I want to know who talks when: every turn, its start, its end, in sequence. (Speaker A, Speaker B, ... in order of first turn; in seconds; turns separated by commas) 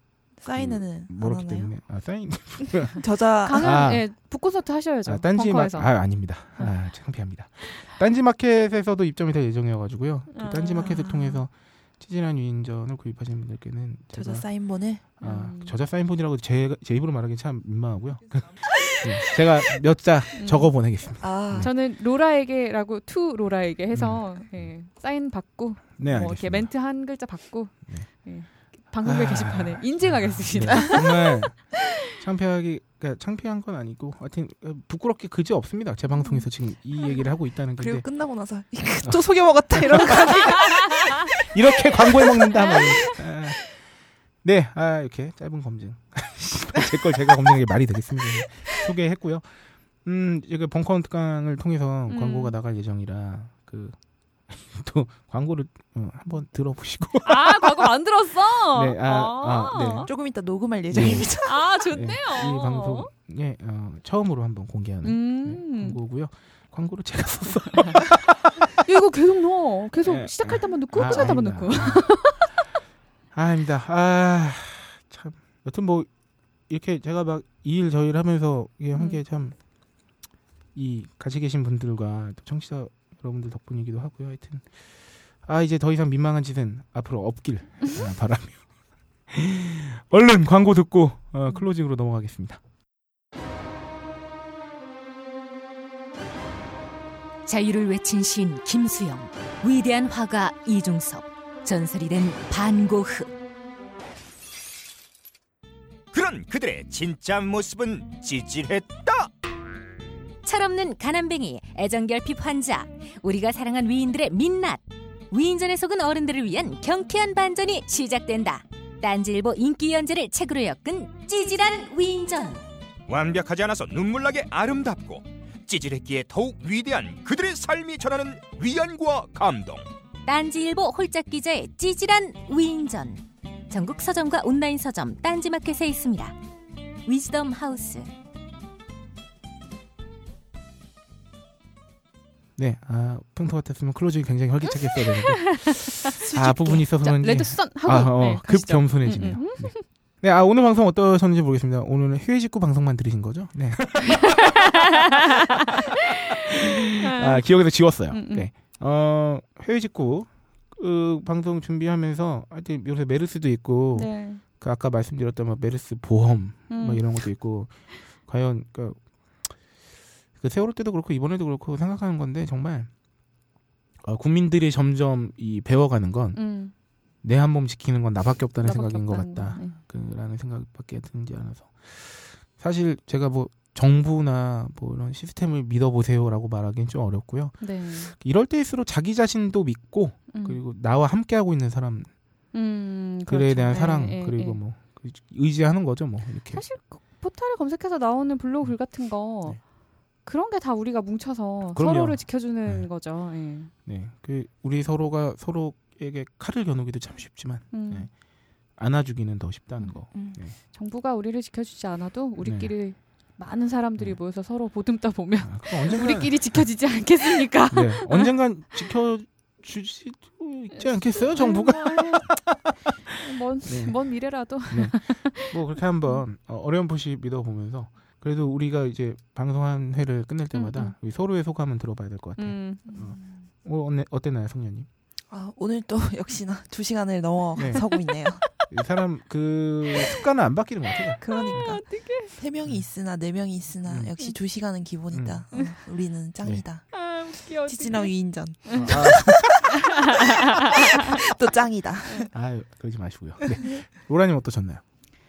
Speaker A: 0.4-1.7, Speaker B: 0.5-3.0, Speaker A: 3.0-3.8, Speaker C: 3.4-5.9, Speaker B: 3.5-4.1, Speaker B: 5.1-14.4, Speaker C: 10.3-11.1, Speaker A: 10.8-11.4, Speaker A: 14.1-15.0, Speaker B: 15.0-21.7, Speaker C: 15.2-15.8, Speaker C: 20.4-20.7, Speaker A: 21.2-21.7, Speaker C: 21.6-31.3, Speaker B: 23.9-24.7, Speaker B: 26.0-26.7, Speaker B: 29.0-38.0, Speaker A: 37.8-43.0, Speaker B: 39.0-40.4, Speaker B: 41.4-43.8, Speaker B: 44.4-49.5, Speaker B: 50.0-54.0, Speaker C: 52.1-52.5, Speaker B: 54.5-57.9, Speaker C: 57.2-60.1, Speaker B: 58.7-60.1, Speaker A: 60.0-61.7, Speaker B: 60.9-68.5, Speaker C: 61.0-63.1, Speaker C: 65.0-66.0, Speaker C: 68.8-72.5, Speaker B: 70.0-72.3, Speaker B: 73.3-76.1, Speaker B: 76.7-79.5, Speaker B: 80.7-84.8, Speaker B: 85.4-88.6, Speaker B: 89.3-92.6, Speaker D: 97.5-103.3, Speaker E: 106.1-109.3, Speaker D: 110.4-122.6, Speaker E: 123.1-129.9, Speaker D: 130.2-136.4, Speaker D: 137.1-138.1, Speaker B: 142.6-154.5, Speaker C: 145.1-149.8, Speaker C: 154.1-154.6, Speaker C: 156.5-157.4, Speaker B: 157.0-169.0, Speaker C: 158.1-158.5, Speaker C: 163.9-164.4, Speaker C: 166.7-167.1, Speaker B: 170.4-172.9, Speaker B: 174.0-176.4, Speaker C: 176.3-176.7, Speaker B: 177.2-192.1, Speaker C: 178.6-179.8, Speaker C: 187.6-188.1, Speaker C: 190.3-190.6, Speaker C: 192.5-194.6, Speaker B: 193.3-196.6, Speaker C: 196.5-199.6, Speaker C: 200.2-203.7, Speaker B: 201.7-202.9, Speaker B: 203.8-208.1, Speaker C: 207.7-208.1, Speaker B: 208.8-210.6, Speaker A: 210.1-210.4, Speaker C: 210.7-218.3, Speaker B: 212.4-212.7, Speaker B: 215.4-216.7, Speaker B: 217.7-222.8, Speaker C: 220.7-222.4, Speaker C: 223.2-226.2, Speaker B: 223.7-234.9, Speaker C: 230.5-230.9, Speaker C: 232.4-233.1, Speaker A: 235.3-238.4, Speaker B: 237.6-237.8, Speaker B: 238.5-241.7, Speaker A: 241.2-247.0, Speaker C: 241.4-242.4, Speaker B: 243.8-244.1, Speaker B: 245.1-245.7, Speaker C: 245.5-245.8, Speaker C: 246.9-249.1, Speaker A: 247.7-252.3, Speaker B: 248.8-249.7, Speaker C: 250.2-250.6, Speaker B: 252.3-254.8